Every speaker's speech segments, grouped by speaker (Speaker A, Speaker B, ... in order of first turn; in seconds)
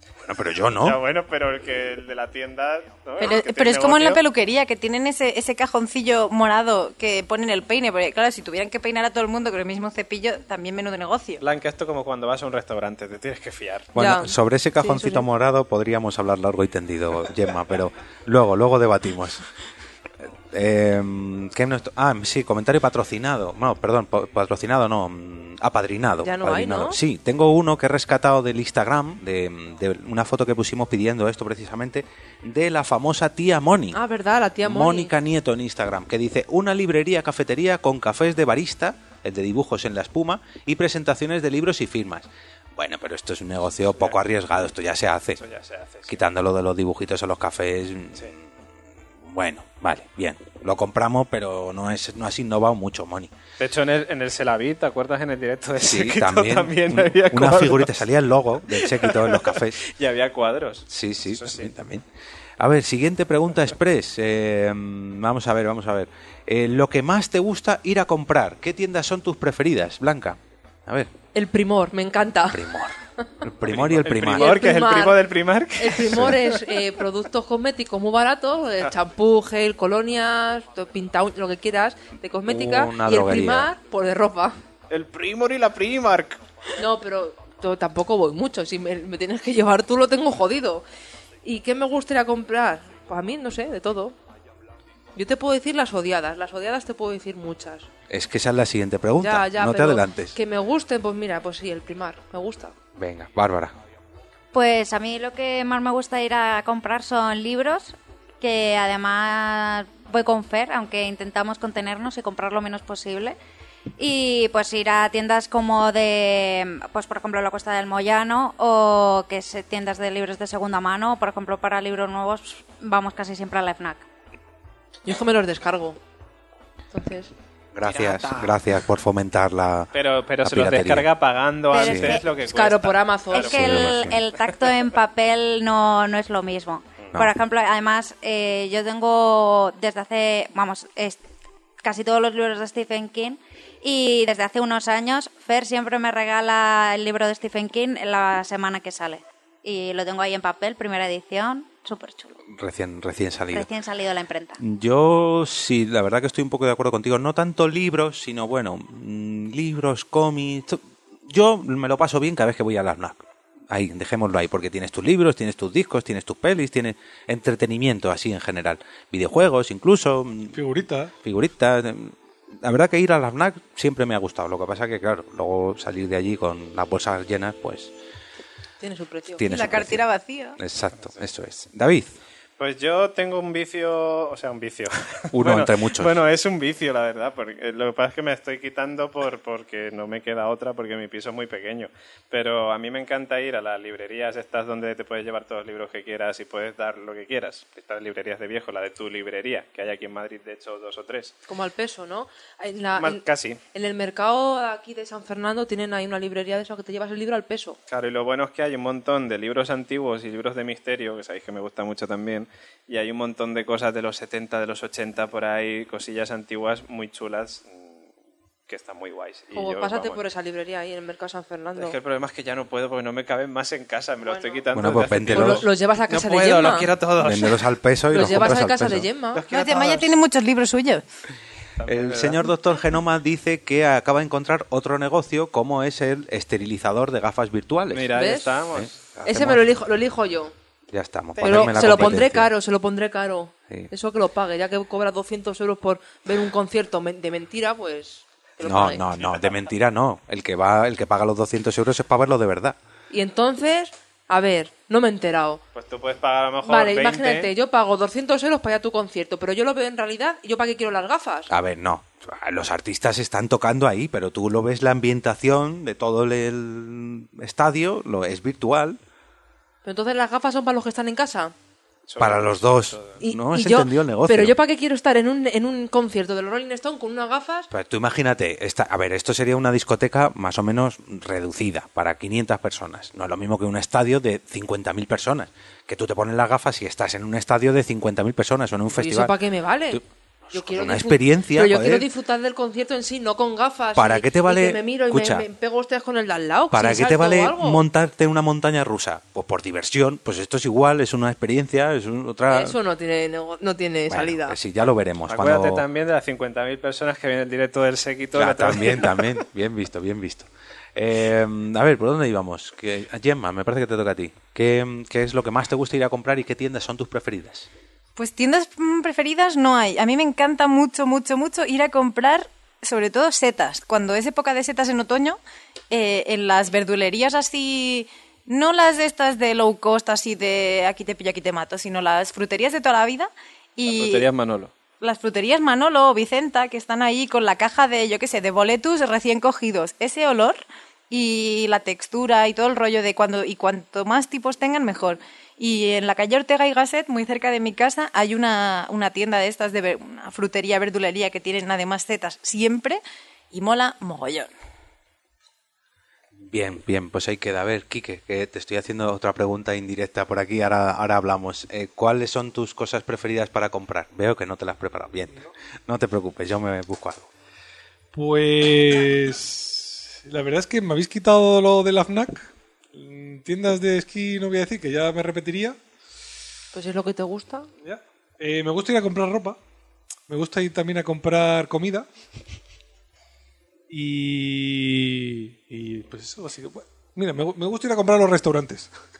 Speaker A: 0.2-1.0, 13.9-19.4, 20.2-34.0, 34.6-45.4, 46.1-48.5, 49.2-53.3, 55.8-59.8, 60.9-62.1, 62.6-71.1, 72.5-74.6, 76.1-76.4, 82.5-83.7, 98.1-100.4, 103.0-103.8, 127.7-129.9, 130.4-131.1, 131.7-132.2, 133.5-134.2, 152.5-153.7, 154.6-170.6, 171.2-177.9, 179.4-180.1, 180.6-182.2, 185.3-186.2, 224.7-225.7, 227.2-229.1, 231.8-238.1, 238.7-239.7, 240.9-242.5, 248.6-252.8, 261.5-269.0, 272.2-274.6, 277.7-289.4, 289.9-292.1, 293.9-295.5, 296.7-302.8, 304.1-305.9, 308.4-317.7, 356.4-367.3
Speaker B: 0.8-4.2, 11.4-13.9, 45.4-46.2, 53.6-58.1, 58.7-61.7, 73.7-76.6, 84.9-86.4, 129.9-134.2, 182.6-201.3, 203.0-203.6, 207.9-218.0, 218.7-220.2, 221.8-227.6, 229.3-230.1, 231.8-232.5, 237.9-238.9, 255.8-257.5, 272.1-273.2, 305.3-309.4, 333.9-334.7
Speaker C: 3.2-11.4, 179.4-180.6, 229.5-231.0, 318.2-325.4, 325.9-334.3, 335.0-353.0, 353.5-354.5
Speaker D: 14.0-15.2, 26.2-27.0, 33.9-35.1, 71.3-72.7, 74.3-84.6, 86.8-90.8, 91.4-94.2, 95.2-97.9, 99.2-102.7, 125.1-126.0, 126.9-127.3, 132.5-133.6, 178.8-179.4, 201.5-207.8, 219.5-222.0, 224.2-224.6, 225.3-226.9, 228.1-229.4, 238.1-238.5, 239.3-240.5, 241.4-249.1, 253.1-255.6, 256.6-261.5, 269.9-271.5, 273.2-277.7, 288.9-290.0, 290.5-297.8, 302.5-304.6, 376.7-377.7
Speaker E: 104.5-113.4, 114.0-124.0, 131.7-132.3, 133.3-141.2, 141.8-152.4, 153.5-154.6
Speaker F: 170.5-171.1, 368.1-375.8, 377.8-379.6, 380.3-382.1, 383.9-388.9